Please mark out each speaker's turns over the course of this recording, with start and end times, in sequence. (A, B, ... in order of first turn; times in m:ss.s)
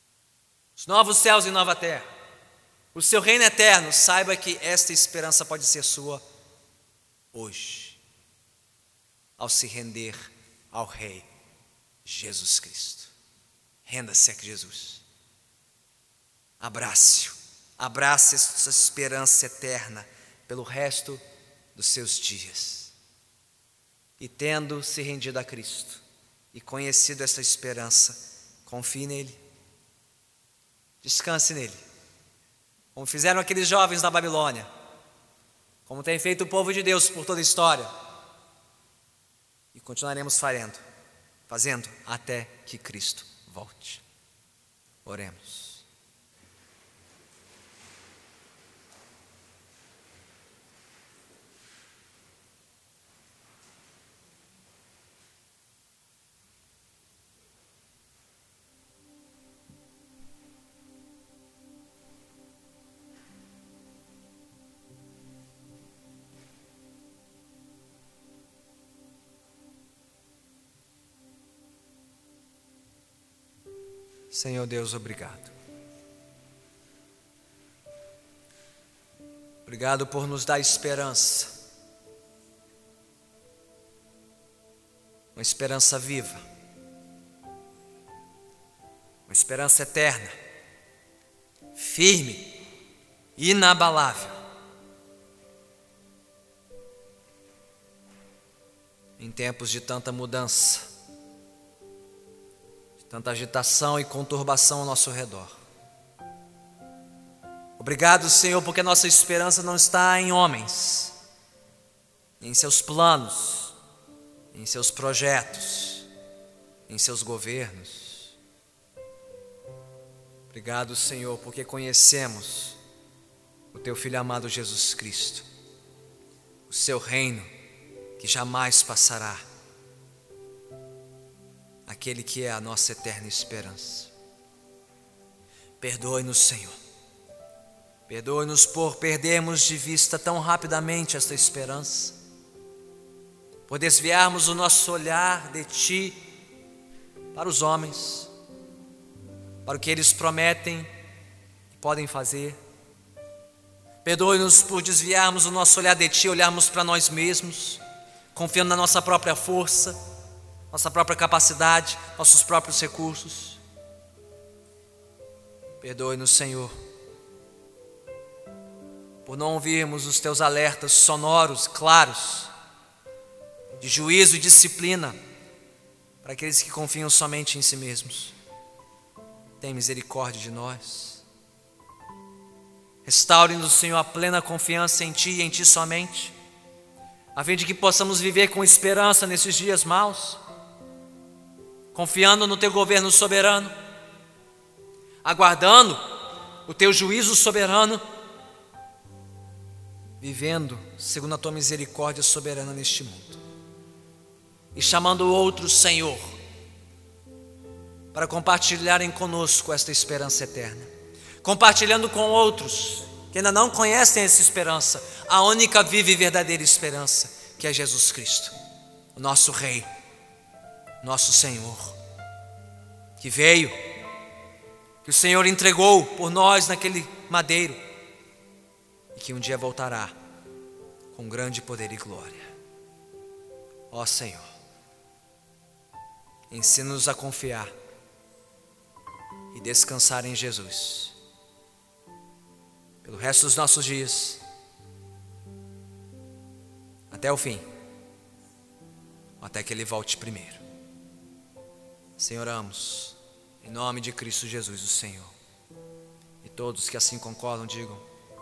0:00.8-0:02.1 A
0:02.9-0:06.2 A
0:07.3-0:08.0 A
0:09.4-0:11.3 A
0:12.0-0:13.1 A
0:13.8-0:15.0 A
0:16.6-0:21.2 A
0:21.7-0:22.9 A
0:24.2-0:26.0 A
0:26.5-0:29.4 A
0:31.0-0:31.8 A
0:32.9-0:34.7 A
0:35.8-0:37.9 A
0:39.7-0:40.8 A
0:41.5-0:44.0 A
0:45.0-0:45.8 A
1:14.3-1:15.5 A
1:19.6-1:21.5 A
1:25.3-1:26.4 A
1:29.3-1:30.3 A
1:31.8-1:32.6 A
1:33.4-1:34.4 A
1:39.2-1:40.9 A
1:43.0-1:45.6 A
1:47.8-1:51.1 A
1:52.4-1:53.7 A
1:54.5-1:56.1 A
1:56.9-1:58.4 A
2:00.5-2:02.8 A
2:03.7-2:05.4 A
2:06.7-2:07.5 A
2:08.2-2:09.4 A
2:11.9-2:14.1 A
2:15.8-2:16.8 A
2:18.1-2:22.2 A
2:23.7-2:26.2 A
2:27.3-2:28.3 A
2:29.6-2:30.9 A
2:31.7-2:32.6 A
2:34.0-2:37.8 A
2:38.3-2:40.0 A
2:40.7-2:43.6 A
2:45.8-2:46.7 A
2:49.2-2:52.5 A
2:53.8-2:55.2 A
2:56.2-2:58.3 A
2:59.6-3:01.2 A
3:03.0-3:06.3 A
3:07.3-3:10.4 A
3:11.9-3:13.7 A
3:15.2-3:16.0 A
3:16.7-3:18.0 A
3:20.2-3:23.4 A
3:24.7-3:26.4 A
3:28.1-3:30.9 A
3:31.4-3:38.5 A
3:39.1-3:39.9 A
3:41.0-3:42.0 A
3:43.2-3:43.8 A
3:45.0-3:47.8 A
3:49.1-3:50.1 A
3:51.1-3:52.5 A
3:53.9-3:54.5 A
3:56.5-3:57.7 A
3:59.5-4:01.2 A
4:03.0-4:04.4 A
4:07.1-4:07.6 A
4:09.4-4:10.6 A
4:12.2-4:15.3 A
4:16.4-4:18.0 A